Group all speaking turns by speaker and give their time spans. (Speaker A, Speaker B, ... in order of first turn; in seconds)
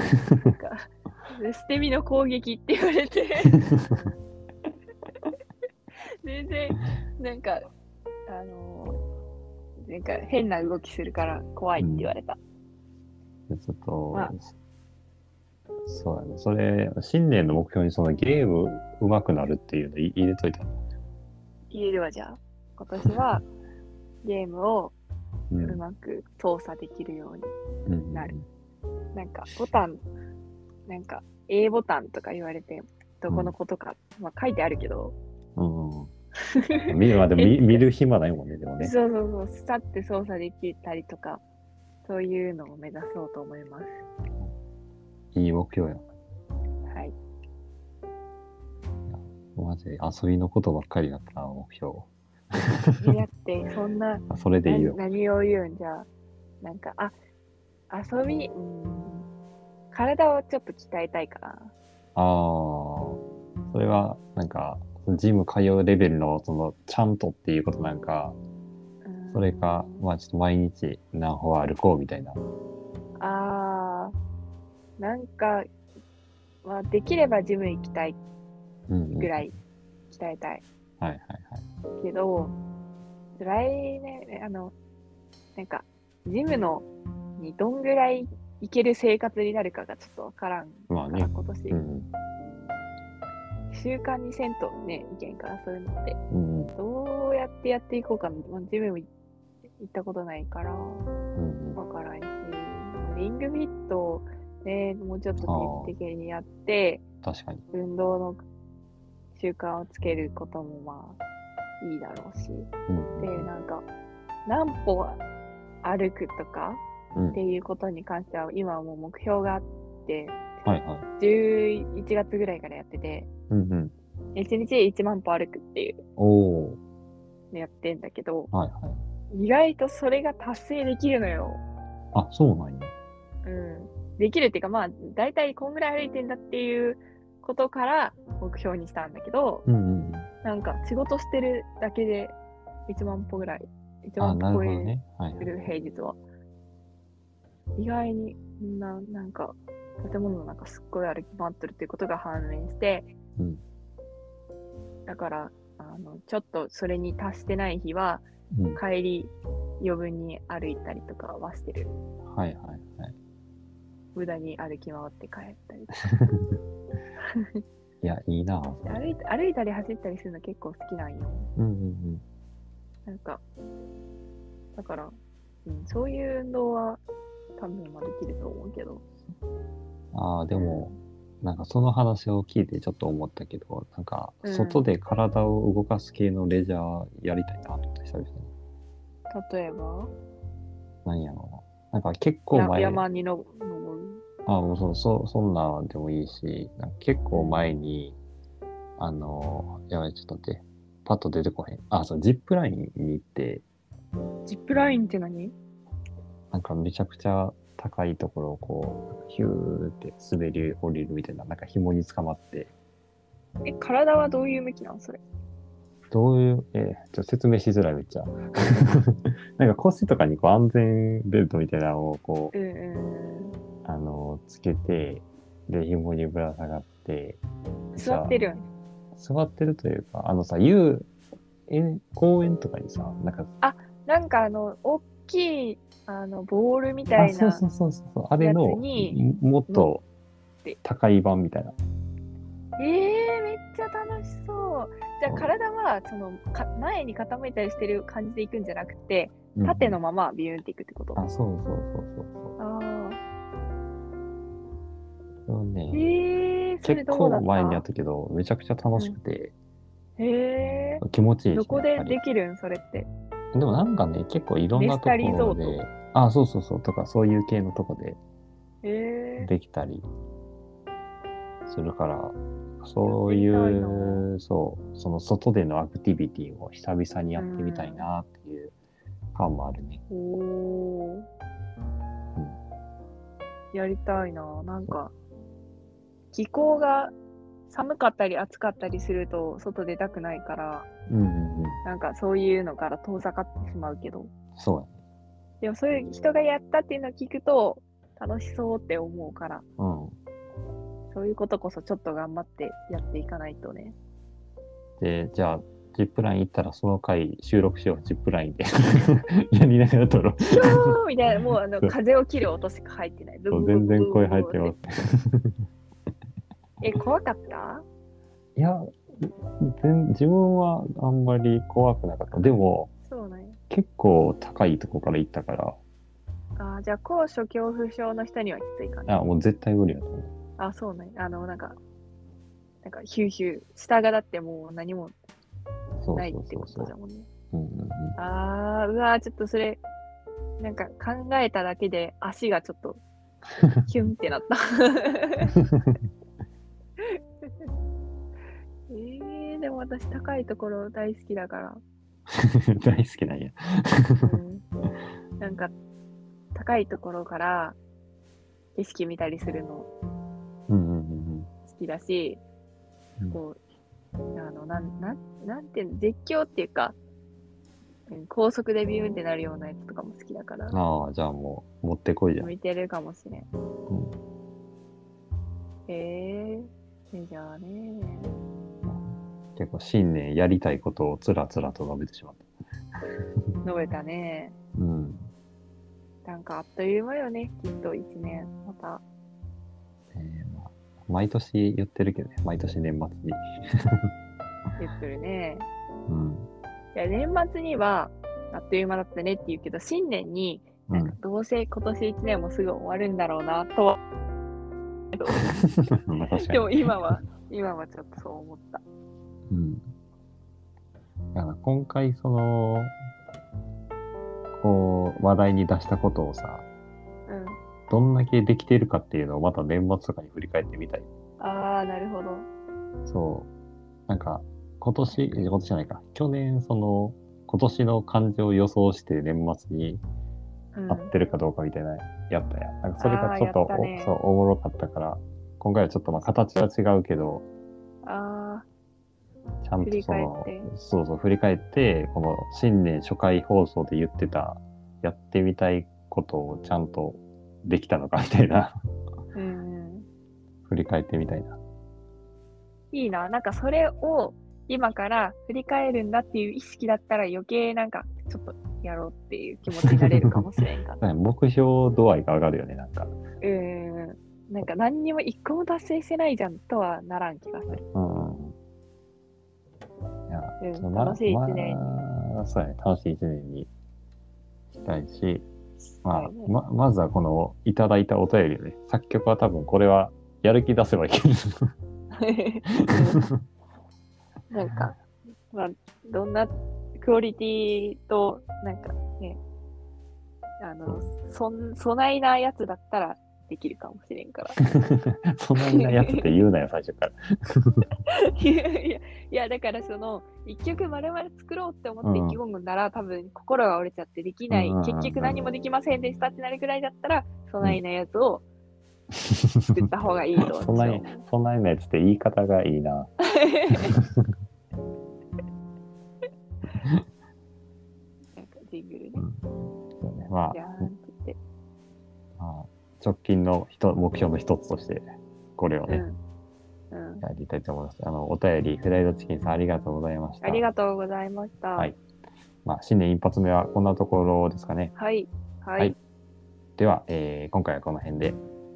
Speaker A: 0.4-4.1, 6.2-7.7, 8.3-9.0, 9.8-12.4, 21.7-23.4, 24.2-24.9, 25.6-27.5, 29.1-30.0, 30.9-35.2, 36.5-37.8, 38.8-41.4, 42.0-44.0, 46.9-47.1, 53.0-56.1, 56.6-57.2, 57.9-59.3, 59.9-61.7, 69.0-70.1, 73.2-74.1, 75.0-75.7, 76.6-78.2, 79.1-79.5, 80.1-80.6, 82.0-82.6, 83.4-84.8, 85.6-86.9, 87.4-91.8, 93.7-96.2, 96.8-99.1, 99.8-101.1, 101.8-107.0, 107.7-108.4, 109.4-111.2, 111.8-113.8, 114.5-115.2, 115.8-116.8, 117.3-120.6, 121.2-123.3, 124.3-126.0, 127.5-128.5, 129.3-131.6, 133.4-139.7, 140.4-142.3, 142.9-146.2, 147.8-153.1, 155.1-161.9, 164.2-165.9, 167.2-167.6, 168.9-171.5, 173.1-173.4, 174.8-177.0, 177.6-179.1, 180.5-181.0, 184.4-184.8, 189.3-190.1, 192.5-194.2, 197.3-197.7, 204.5-205.6, 213.7-215.2, 222.5-223.6, 227.9-228.7, 233.6-237.6, 238.4-240.0, 242.8-251.2, 252.6-253.2, 255.9-257.8, 260.2-263.1, 264.7-265.8, 268.8-269.5, 273.1-274.3, 277.4-278.1, 280.1-281.3, 283.7-285.1, 286.3-287.1, 287.7-290.9, 291.8-294.3, 295.6-299.6, 301.1-303.9, 310.4-314.8, 316.8-317.9, 323.1-323.6, 326.6-329.2, 330.6-331.8, 332.8-335.1, 336.1-337.3, 338.2-339.8, 340.6-343.0, 343.8-345.5, 347.1-347.7, 348.9-351.8, 354.2-354.6, 355.4-355.7, 356.5-357.8, 358.8-359.9, 361.7-362.4, 363.3-363.6, 364.4-367.0, 368.1-370.8, 372.4-373.5, 375.9-378.3, 383.6-384.6, 386.2-389.0, 394.8-395.7, 396.9-404.0, 405.1-405.5, 406.4-408.8, 417.3-417.6, 421.4-422.5, 425.1-425.5, 430.8-431.1, 433.0-434.1, 438.0-438.6, 439.8-440.7, 449.4-450.1, 452.9-461.0, 463.4-467.8, 470.6-471.8, 475.8-476.5, 482.1-483.2, 484.5-485.0, 485.5-489.4, 490.6-494.6, 495.6-496.2, 498.1-508.4, 509.7-511.2, 513.2-514.0, 518.4-519.3, 520.5-521.4, 525.9-526.2, 526.9-527.2, 530.4-531.9, 535.0-536.0
Speaker B: 3.5-3.9, 11.8-12.1, 13.5-14.5, 15.9-20.7, 25.5-25.8, 27.9-28.4, 33.3-33.5, 35.6-36.1, 36.9-38.9, 45.3-46.0, 49.1-53.2, 54.3-55.0, 62.1-68.4, 69.3-72.4, 78.9-79.5, 81.0-81.7, 90.9-92.1, 96.3-96.8, 101.4-101.8, 105.4-105.9, 107.2-107.6, 112.9-113.5, 117.2-117.4, 120.6-121.1, 123.5-123.9, 126.2-126.8, 128.5-129.0, 132.1-132.9, 139.7-140.3, 144.2-145.5, 158.5-158.8, 162.2-163.2, 166.1-166.6, 168.0-169.2, 171.6-172.2, 180.1-188.5, 191.1-193.0, 194.5-198.2, 199.0-203.6, 206.5-212.7, 216.1-222.5, 223.8-227.4, 227.9-228.5, 229.2-231.1, 231.7-233.5, 237.2-240.0, 240.8-241.8, 245.3-245.5, 249.6-250.0, 251.2-252.6, 255.5-256.1, 256.8-259.5, 261.0-262.2, 263.5-268.2, 269.4-270.1, 271.7-278.7, 279.3-280.0, 291.1-291.8, 294.6-295.0, 299.8-300.2, 305.0-311.0, 311.6-311.9, 313.5-315.6, 318.6-322.9, 323.7-325.8, 329.1-330.3, 336.0-336.9, 337.5-338.2, 345.6-346.0, 352.3-354.3, 360.7-361.5, 370.7-372.5, 373.9-374.2, 378.9-382.5, 384.8-385.3, 390.1-394.1, 396.1-396.5, 400.9-401.2, 405.3-406.9, 409.5-409.9, 411.3-412.9, 414.6-416.6, 417.9-421.1, 423.1-423.5, 424.1-430.0, 430.9-437.4, 439.6-448.8, 450.7-451.6, 459.9-460.5, 461.0-463.1, 467.7-468.6, 470.3-473.7, 474.7-475.5, 476.1-481.7, 482.8-483.4, 494.6-497.9, 502.0-502.4, 504.5-505.4, 509.1-509.8, 510.4-513.1, 513.7-514.3, 519.2-519.4, 520.0-520.9, 522.4-526.0, 527.2-530.6, 532.6-534.9, 536.8-538.4